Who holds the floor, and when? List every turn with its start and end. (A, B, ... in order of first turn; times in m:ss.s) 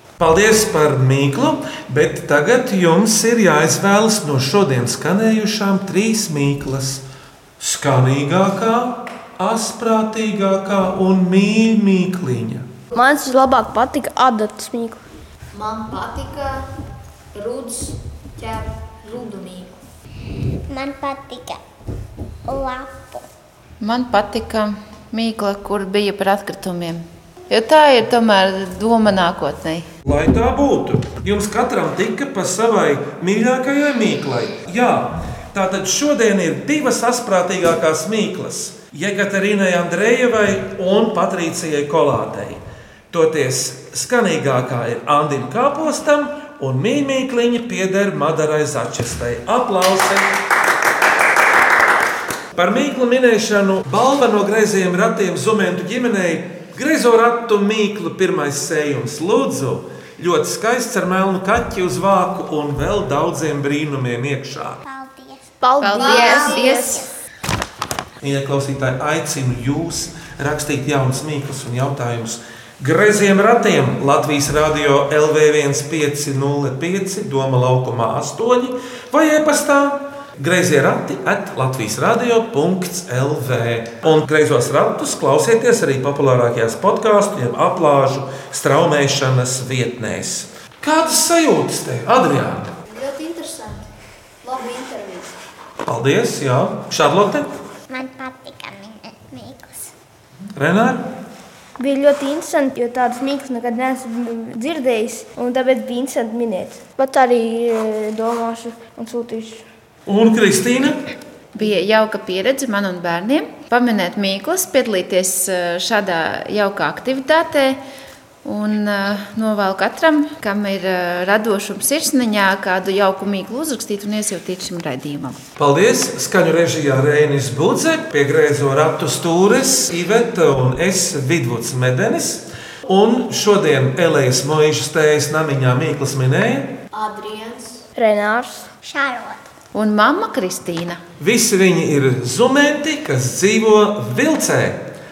0:00.2-0:07.0 A
0:07.6-0:12.7 A
0:12.9-0:15.0 B
0:15.5-0:16.6 C
0:17.3-0:19.8 C
0:20.7-0:21.6 D
0:22.5-0:23.2 D
0:23.8-0:29.9 E
0:30.0-0:50.3 A
0:52.6-1:04.8 A
1:04.8-1:07.1 D
1:05.6-1:07.0 B
1:05.8-1:07.0 E
1:06.0-1:06.8 C
1:08.2-1:32.7 A
1:32.9-1:33.9 C
1:34.4-1:35.4 C
1:35.9-1:37.5 A
1:37.9-1:39.9 D
1:40.6-1:41.1 A
1:41.8-1:49.7 B
1:50.1-1:51.0 A
1:51.6-1:57.8 E
1:58.4-2:05.4 E
2:05.6-2:16.8 A
2:16.9-2:17.9 C
2:18.0-2:18.7 B
2:18.8-2:19.4 D
2:19.7-2:21.0 E
2:21.2-2:24.8 A